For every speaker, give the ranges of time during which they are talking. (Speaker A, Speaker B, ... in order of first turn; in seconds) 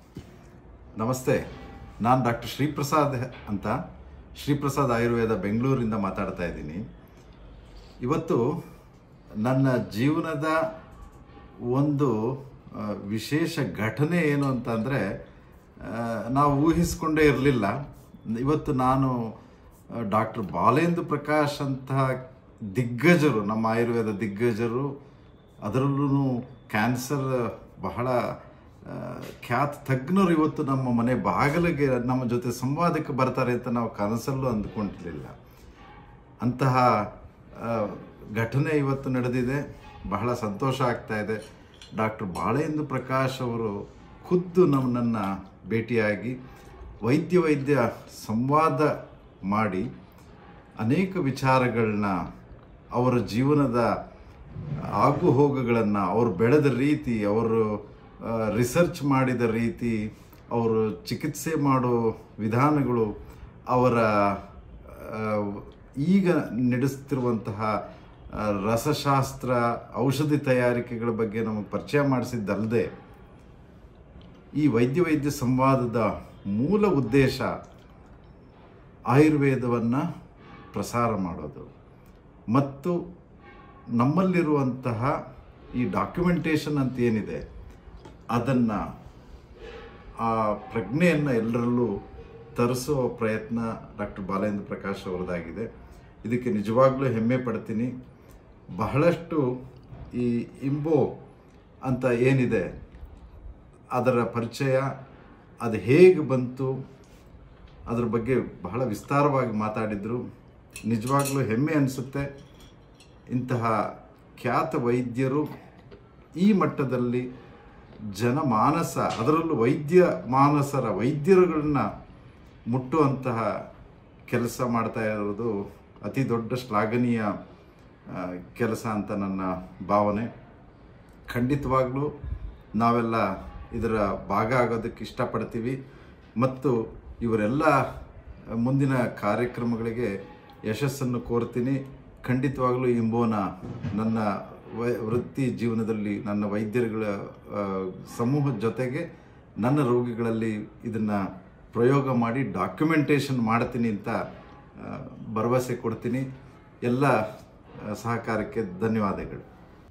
Speaker A: 1.0-1.4, 2.0-3.8, 4.4-6.8, 8.0-8.4, 9.4-10.6, 11.7-12.1, 12.7-15.0, 15.8-17.7, 18.4-19.1, 20.1-22.2, 22.7-24.9, 25.6-28.1, 28.8-35.3, 36.4-41.4, 42.0-46.3, 47.0-48.9, 49.5-49.9, 50.8-52.1, 52.9-53.9, 55.0-57.6, 58.2-60.0, 60.5-63.1, 63.7-67.7, 68.3-72.9, 74.6-77.5, 79.1-80.0, 80.7-81.7, 82.5-83.0, 84.0-85.1, 85.8-87.4, 88.3-88.8, 90.2-91.9, 92.5-95.7, 96.2-97.9, 98.8-99.4, 100.1-101.1, 101.9-102.7, 103.9-104.9, 105.6-106.7, 107.9-110.2, 110.9-112.2, 113.3-113.7, 114.4-115.5, 116.4-117.2, 118.2-121.8, 122.7-123.4, 124.3-125.5, 126.0-127.3, 128.1-130.3, 131.3-132.1, 132.8-135.8, 136.4-137.8, 138.6-140.1, 140.7-149.0, 149.6-151.2, 151.7-154.2, 154.8-156.2, 156.8-157.1, 157.8-159.4